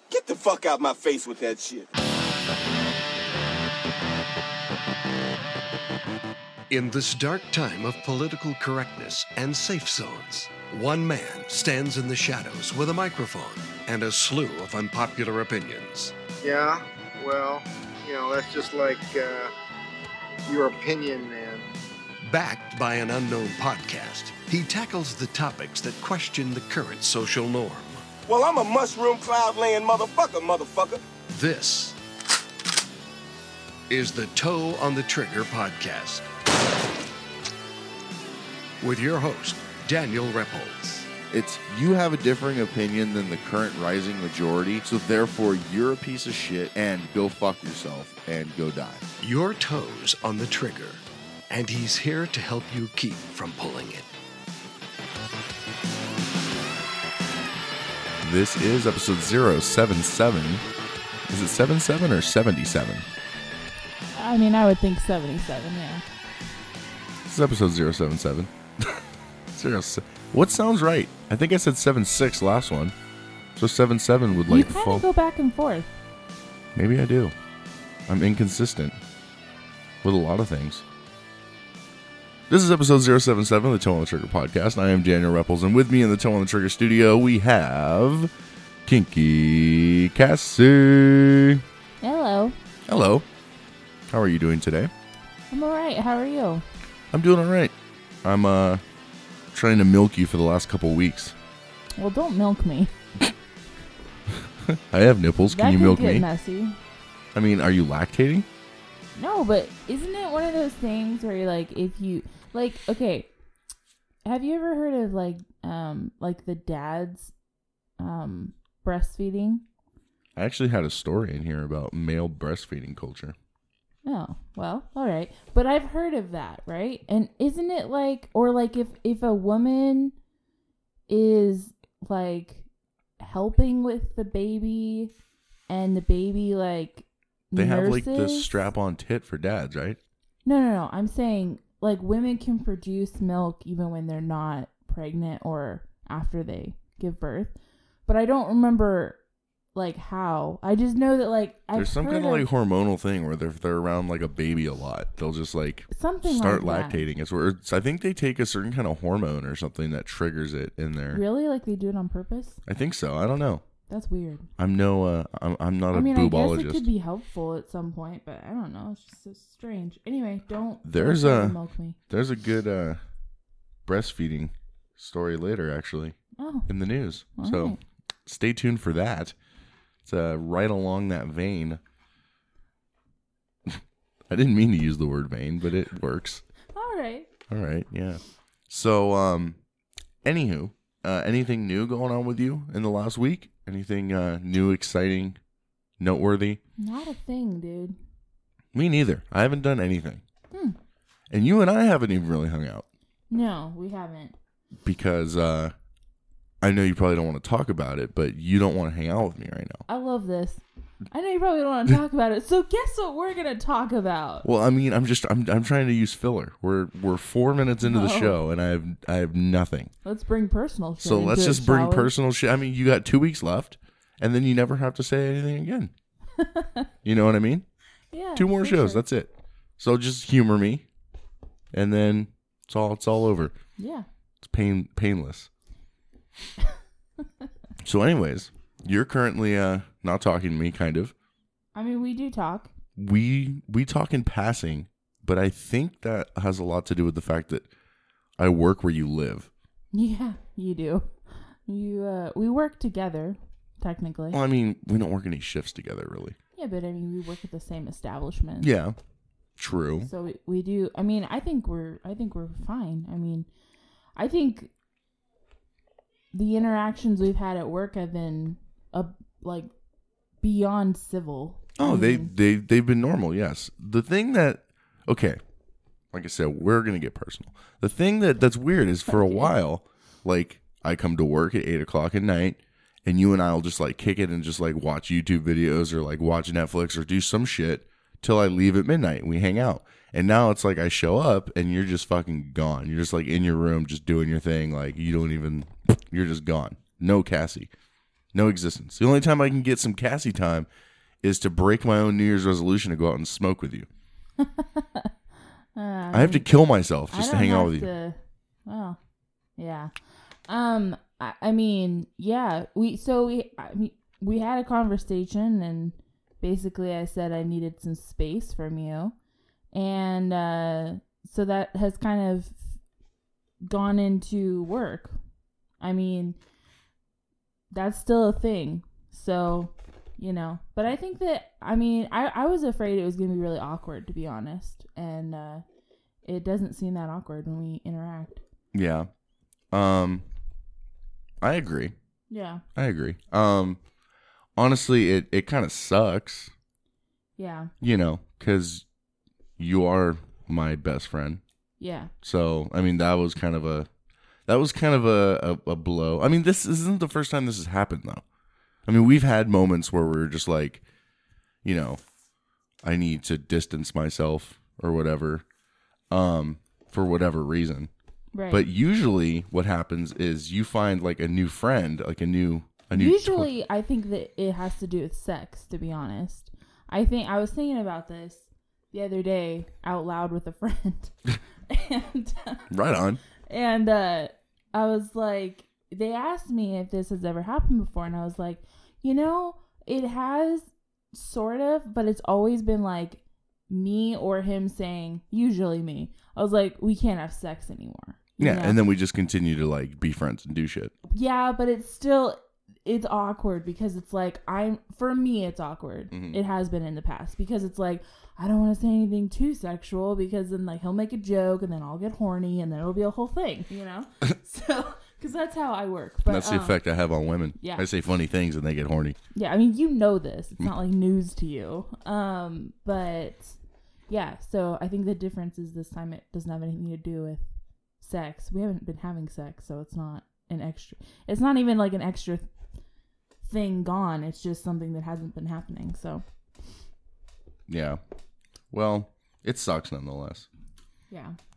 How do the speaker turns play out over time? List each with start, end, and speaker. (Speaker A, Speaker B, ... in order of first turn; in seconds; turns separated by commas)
Speaker A: 0.1-1.9, Speaker B: 6.7-16.1, Speaker C: 16.4-19.5, Speaker C: 20.4-21.6, Speaker B: 22.2-28.1, Speaker A: 28.2-31.0, Speaker B: 31.3-31.9, Speaker B: 33.9-36.2, Speaker B: 38.8-41.1, Speaker D: 41.3-49.0, Speaker B: 49.2-54.1, Speaker D: 58.2-60.6, Speaker D: 61.3-63.1, Speaker E: 64.1-66.0, Speaker D: 67.2-72.9, Speaker D: 73.5-75.0, Speaker E: 74.5-75.9, Speaker D: 76.7-77.3, Speaker D: 78.1-79.0, Speaker D: 80.0-80.8, Speaker D: 82.5-88.3, Speaker D: 88.8-91.6, Speaker E: 92.0-92.5, Speaker D: 92.9-93.2, Speaker D: 94.1-94.9, Speaker E: 95.5-96.6, Speaker D: 97.1-98.8, Speaker D: 99.5-101.3, Speaker E: 102.0-102.9, Speaker D: 104.6-106.3, Speaker E: 105.5-106.8, Speaker D: 107.3-108.5, Speaker E: 109.2-113.3, Speaker E: 114.2-117.3, Speaker E: 118.0-119.6, Speaker D: 120.3-123.3, Speaker E: 124.0-130.1, Speaker E: 131.1-132.7, Speaker E: 133.2-135.1, Speaker E: 135.7-138.5, Speaker D: 137.5-140.0, Speaker E: 140.4-147.5, Speaker E: 148.1-149.2, Speaker E: 149.7-152.4, Speaker D: 151.7-161.2, Speaker E: 155.9-157.1, Speaker E: 161.1-162.6, Speaker D: 162.7-163.6, Speaker E: 163.9-164.5, Speaker D: 164.6-166.9, Speaker E: 165.9-172.0, Speaker D: 170.8-171.6, Speaker D: 172.1-173.0, Speaker D: 173.8-176.2, Speaker E: 176.4-176.7, Speaker D: 176.7-179.3, Speaker E: 177.3-177.8, Speaker D: 180.0-181.8, Speaker D: 183.7-186.4, Speaker E: 186.7-187.3, Speaker D: 187.5-189.6, Speaker D: 190.2-195.4, Speaker D: 196.0-196.6, Speaker E: 196.8-197.9, Speaker D: 198.7-200.2, Speaker E: 200.5-200.8, Speaker D: 201.3-202.8, Speaker E: 203.3-204.3, Speaker D: 204.8-205.7, Speaker D: 206.6-209.8, Speaker E: 209.9-214.5, Speaker D: 214.4-219.9, Speaker E: 217.8-218.4, Speaker E: 220.0-222.1, Speaker D: 221.0-225.9, Speaker E: 226.4-226.9, Speaker D: 227.0-227.6, Speaker E: 228.1-229.0, Speaker D: 228.3-230.8, Speaker D: 231.7-233.5, Speaker E: 233.8-234.1, Speaker D: 234.4-235.5, Speaker D: 237.8-241.1, Speaker E: 241.7-242.7, Speaker D: 242.9-247.7, Speaker D: 248.4-249.5, Speaker E: 249.9-251.1, Speaker E: 251.7-254.4, Speaker D: 254.3-256.4, Speaker E: 256.6-258.7, Speaker D: 258.6-258.9, Speaker D: 259.6-260.1, Speaker E: 260.0-263.5, Speaker E: 264.1-264.7, Speaker E: 266.3-269.7, Speaker E: 270.4-272.3, Speaker D: 271.8-275.4, Speaker D: 276.1-297.7, Speaker E: 279.1-279.5, Speaker D: 298.3-300.7, Speaker D: 301.2-303.9, Speaker E: 304.4-305.1, Speaker E: 305.7-306.5, Speaker D: 306.1-307.9, Speaker E: 307.1-309.0, Speaker E: 309.6-309.9, Speaker E: 310.5-319.1, Speaker E: 319.7-322.6, Speaker E: 323.6-325.1, Speaker E: 325.8-326.4, Speaker E: 327.7-335.6, Speaker E: 336.2-338.4, Speaker D: 338.7-339.1, Speaker D: 339.7-340.2, Speaker D: 341.4-341.9, Speaker E: 342.3-342.6, Speaker D: 342.7-343.8, Speaker D: 344.6-346.5, Speaker E: 347.4-347.7, Speaker D: 347.8-348.8, Speaker D: 349.6-351.4, Speaker E: 351.8-352.1, Speaker D: 352.2-353.9, Speaker D: 354.5-358.2, Speaker D: 358.9-360.8, Speaker D: 361.6-362.0, Speaker D: 362.8-365.4, Speaker D: 366.1-367.9, Speaker E: 368.3-368.6, Speaker D: 368.5-373.5, Speaker E: 372.9-381.1, Speaker E: 381.7-382.6, Speaker D: 382.7-383.2, Speaker E: 383.5-398.8, Speaker D: 398.4-400.9, Speaker E: 401.1-416.8, Speaker D: 406.1-406.4, Speaker D: 416.2-419.2, Speaker E: 417.6-417.9, Speaker E: 419.3-423.6, Speaker E: 424.1-427.4, Speaker E: 428.0-432.5, Speaker E: 433.4-436.2, Speaker D: 437.7-438.0, Speaker D: 438.7-440.5, Speaker E: 441.1-441.4